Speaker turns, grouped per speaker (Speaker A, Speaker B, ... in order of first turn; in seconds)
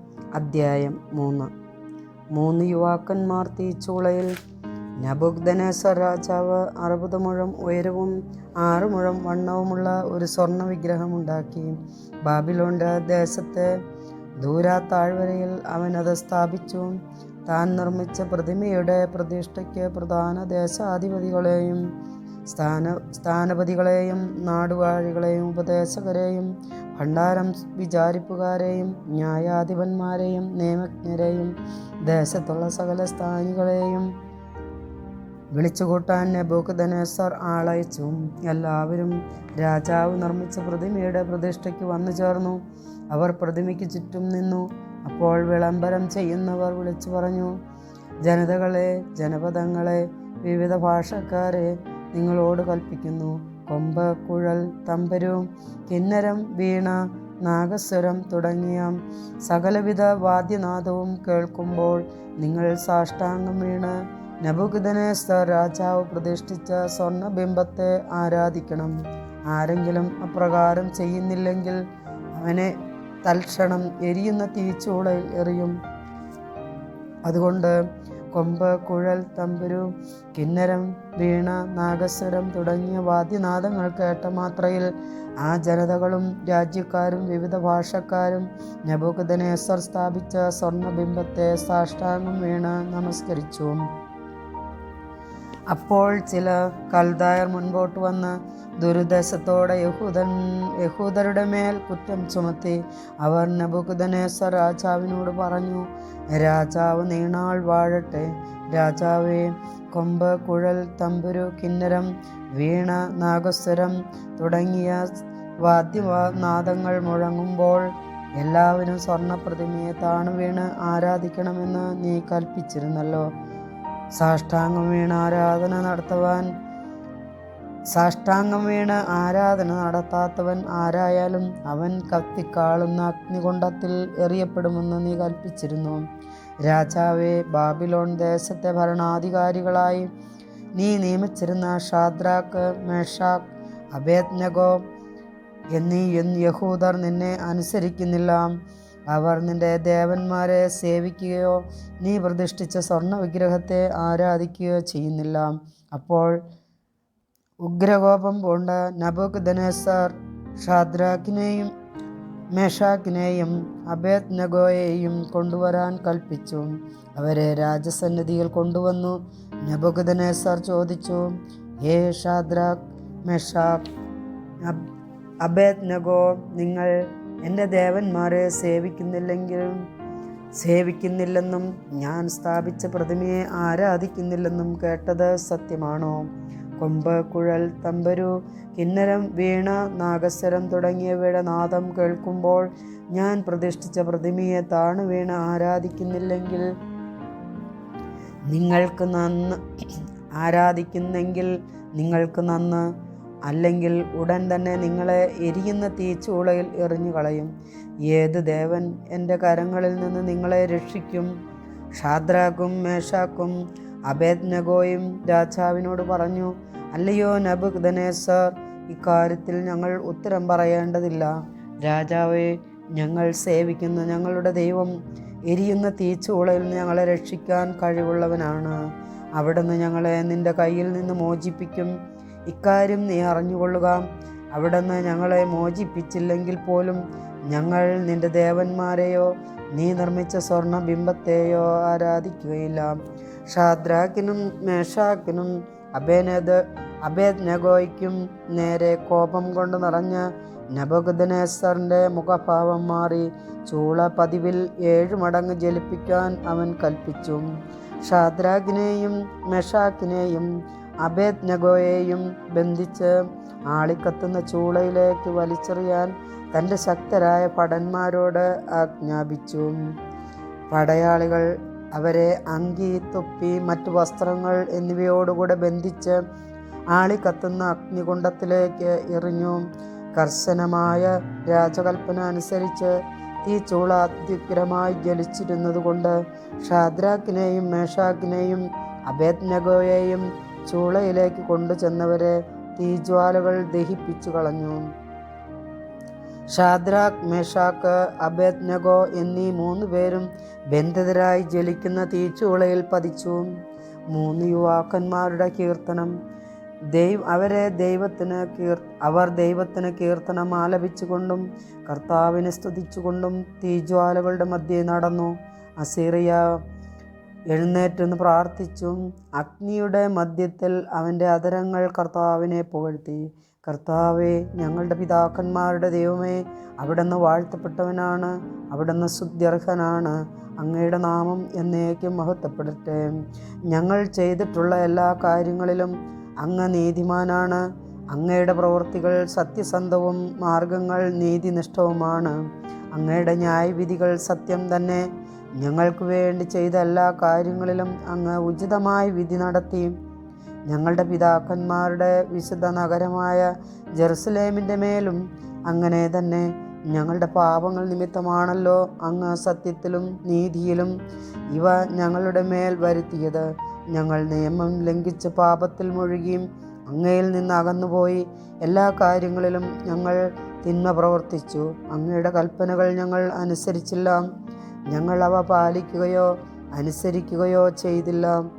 Speaker A: 0.3-1.5, 2.3-4.3, 5.0-13.7, 14.4-21.8, 22.5-31.5, 32.0-34.1, 35.5-42.6, 43.1-47.5, 48.2-68.9, 69.5-71.8, 72.3-72.7, 73.2-75.7, 77.2-77.8, 78.3-93.8, 95.7-115.1, 115.6-123.3, 124.2-126.5, 127.9-136.0, 136.6-140.1, 140.8-144.8, 145.8-148.5, 149.1-156.3, 157.6-161.7, 162.5-171.3, 171.8-173.8, 175.4-176.9, 177.4-179.8, 180.6-186.2, 186.8-196.7, 198.5-199.6, 200.3-202.8, 203.5-207.5, 208.1-211.3, 212.0-213.6, 214.1-224.9, 225.5-228.8, 229.4-231.9, 232.5-243.0, 243.5-257.4, 258.0-260.5, 261.0-263.1, 263.7-269.8, 270.7-276.2, 276.9-279.6, 280.1-282.9, 283.4-294.8, 296.5-303.5, 304.1-306.1, 306.9-316.6, 317.5-333.1, 333.7-342.4, 342.9-345.1, 345.6-349.9, 350.7-360.9, 361.5-374.2, 374.9-378.4